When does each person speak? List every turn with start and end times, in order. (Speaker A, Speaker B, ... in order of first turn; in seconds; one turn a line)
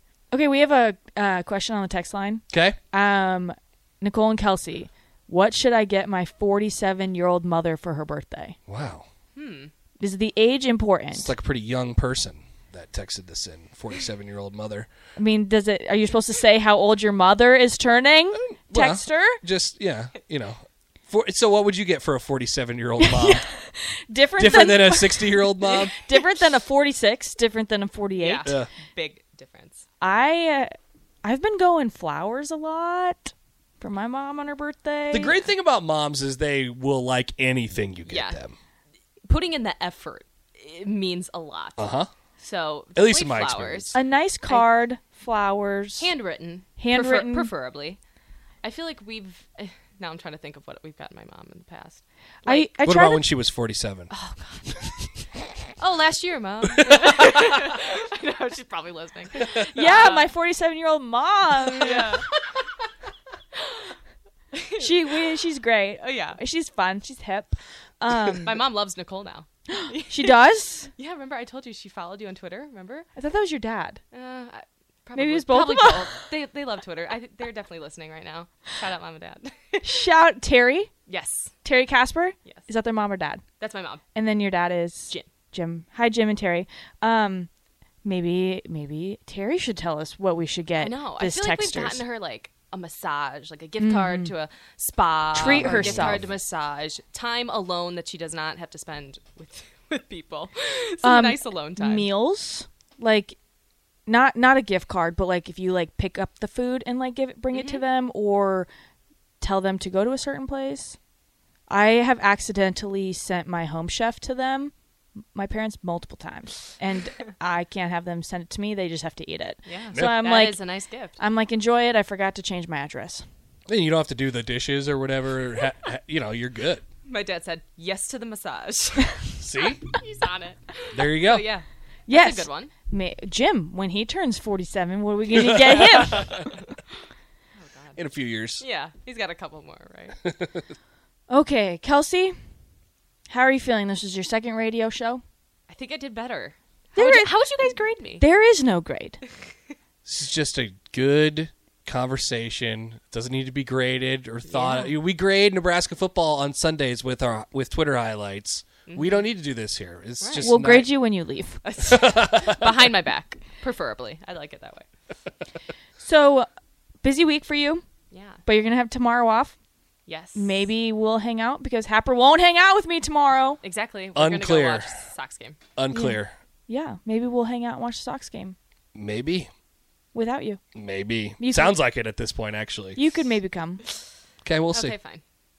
Speaker A: 0.3-8.6
Speaker B: 2.5-2.8
Speaker B: 8.7-9.1
Speaker C: 9.3-9.7
Speaker A: 10.0-11.3
Speaker B: 11.1-14.9
Speaker A: 15.2-19.4
Speaker B: 18.4-23.5
Speaker A: 23.0-28.5
Speaker B: 24.4-25.9
Speaker C: 28.2-29.9
Speaker A: 30.0-35.4
Speaker B: 35.1-38.5
Speaker C: 38.1-38.4
Speaker C: 39.3-41.9
Speaker B: 41.8-42.1
Speaker C: 42.4-44.7
Speaker B: 43.0-44.0
Speaker A: 43.9-46.1
Speaker C: 46.0-48.0
Speaker A: 46.8-47.5
Speaker C: 48.6-52.7
Speaker A: 52.5-53.2
Speaker B: 52.9-54.1
Speaker C: 54.1-54.7
Speaker C: 55.8-60.3
Speaker B: 56.8-57.3
Speaker A: 59.7-62.1
Speaker C: 61.7-62.6
Speaker C: 63.5-64.0
Speaker C: 64.5-65.4
Speaker A: 64.8-68.6
Speaker C: 66.0-66.4
Speaker C: 68.4-70.4
Speaker A: 69.7-70.9
Speaker C: 71.0-73.1
Speaker A: 73.2-74.0
Speaker C: 74.1-80.0
Speaker A: 75.2-76.1
Speaker A: 79.8-80.9
Speaker C: 81.1-81.5
Speaker A: 81.6-83.4
Speaker C: 83.6-84.0
Speaker A: 84.2-87.5
Speaker A: 88.0-92.0
Speaker C: 90.8-102.1
Speaker A: 93.8-94.3
Speaker A: 95.3-96.2
Speaker B: 95.4-96.3
Speaker A: 101.0-103.4
Speaker A: 104.1-108.7
Speaker C: 107.5-107.8
Speaker A: 109.4-111.0
Speaker A: 111.7-114.7
Speaker A: 115.3-120.6
Speaker C: 119.7-121.2
Speaker A: 121.2-123.2
Speaker B: 123.7-126.8
Speaker C: 127.1-129.3
Speaker B: 129.4-129.8
Speaker C: 129.9-132.7
Speaker B: 130.9-131.5
Speaker A: 132.1-136.5
Speaker B: 135.3-136.3
Speaker C: 135.7-136.8
Speaker C: 137.6-138.0
Speaker B: 138.0-138.6
Speaker C: 138.6-140.2
Speaker B: 140.3-140.6
Speaker A: 141.3-142.4
Speaker A: 143.3-145.2
Speaker C: 145.7-148.2
Speaker A: 146.9-147.3
Speaker A: 148.2-149.2
Speaker B: 150.1-160.9
Speaker C: 154.5-154.9
Speaker C: 158.9-159.2
Speaker C: 160.2-160.5
Speaker A: 160.4-161.6
Speaker C: 161.6-164.9
Speaker B: 161.8-162.7
Speaker A: 166.0-166.5
Speaker A: 167.0-167.8
Speaker C: 168.1-168.4
Speaker A: 168.4-169.6
Speaker C: 170.1-170.6
Speaker A: 170.3-173.6
Speaker C: 173.6-175.6
Speaker B: 174.2-174.9
Speaker B: 175.8-176.3
Speaker A: 175.9-178.6
Speaker B: 178.9-179.5
Speaker A: 180.1-180.6
Speaker B: 180.8-183.0
Speaker A: 181.4-181.8
Speaker A: 183.0-183.8
Speaker B: 184.4-185.0
Speaker C: 184.7-185.2